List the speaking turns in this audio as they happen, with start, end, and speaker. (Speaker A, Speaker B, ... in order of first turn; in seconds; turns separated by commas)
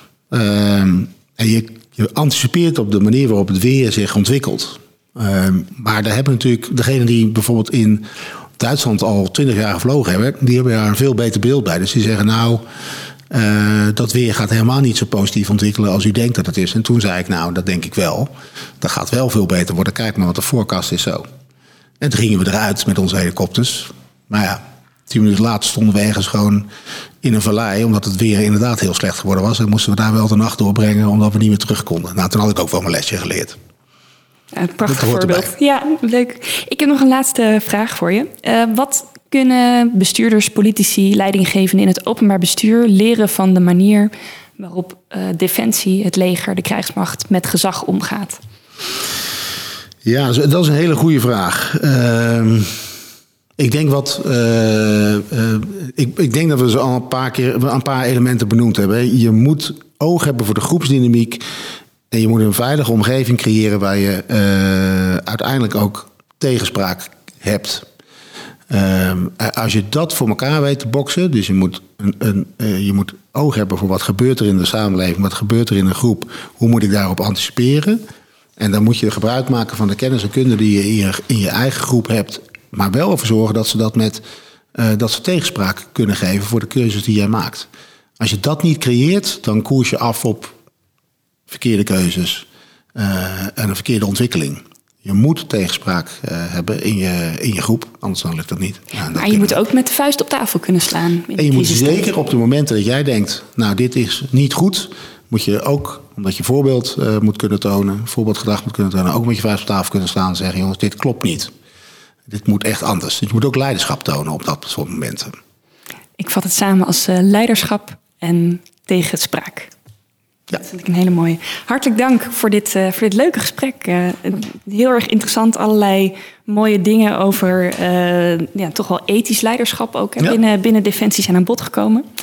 Speaker A: 0.3-8.1, Speaker A: 8.6-12.6, Speaker A: 13.3-21.3, Speaker A: 22.0-26.7, Speaker A: 27.2-33.6, Speaker B: 34.5-48.4, Speaker A: 34.9-35.5, Speaker A: 50.0-52.9, Speaker A: 53.6-61.4, Speaker A: 62.1-67.9, Speaker A: 68.7-78.0, Speaker A: 78.6-84.2, Speaker A: 84.8-90.5, Speaker A: 91.5-99.6, Speaker B: 99.1-102.1, Speaker A: 101.4-111.5, Speaker A: 112.3-115.4, Speaker B: 116.2-119.7, Speaker B: 120.5-132.1